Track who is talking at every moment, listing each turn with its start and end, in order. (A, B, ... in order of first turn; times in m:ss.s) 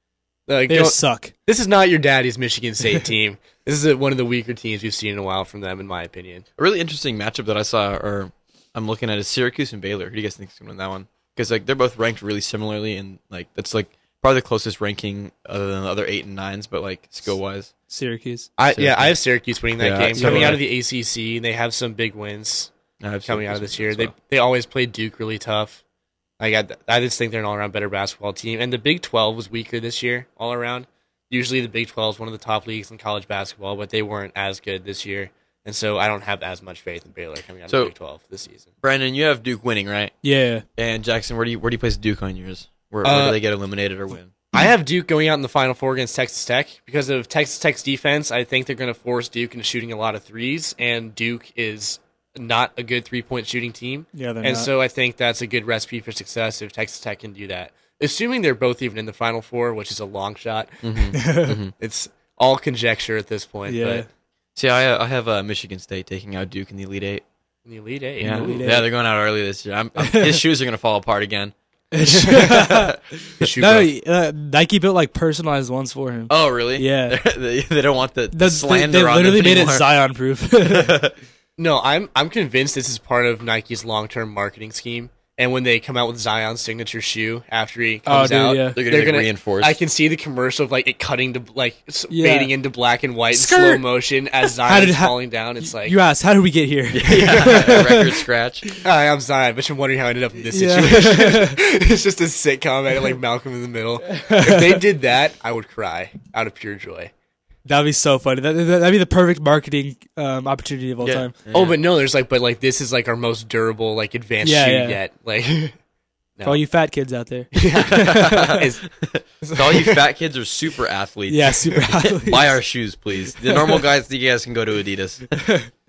0:00.5-0:06.4 A
0:00.7-0:01.3 B
0:06.6-0:17.7 C
0:17.9-0:18.5 B
0:18.6-0:22.7 A
0:18.7-0:19.1 C
0:19.8-0:20.6 C
0:20.2-0:20.6 B
0:23.0-0:24.1 C
0:23.2-0:25.8 A
0:26.4-0:38.7 A
0:38.8-0:40.1 C
0:40.2-0:40.6 B
0:40.8-0:44.3 C
0:43.0-0:43.4 A
0:44.5-1:00.8 A
0:54.2-0:54.7 B
1:00.8-1:01.7 C
1:01.1-1:01.6 B
1:01.8-1:04.0 A
1:03.7-1:04.1 B
1:04.6-1:07.2 C
1:07.7-1:08.6 A
1:08.2-1:11.5 C
1:08.3-1:08.9 B
1:10.0-1:10.4 B
1:11.9-1:17.2 B
1:12.1-1:13.0 C
1:12.2-1:12.6 A
1:13.4-1:13.9 A
1:16.3-1:19.9 C
1:18.3-1:20.9 B
1:20.6-1:21.2 C
1:21.6-1:36.0 A
1:28.1-1:28.8 B
1:28.7-1:29.8 C
1:32.1-1:32.5 B
1:33.3-1:33.8 B
1:34.6-1:38.8 B
1:36.9-1:38.7 C
1:38.8-1:47.1 A
1:40.5-1:41.6 B
1:44.1-1:44.8 B
1:47.7-1:51.3 B
1:51.0-1:51.8 C
1:51.5-1:55.7 A
1:54.4-1:55.0 B
1:56.4-1:58.6 B
1:57.5-1:58.8 A
1:57.7-2:05.4 C
1:59.4-2:00.0 A
2:01.3-2:02.5 B
2:03.4-2:03.8 B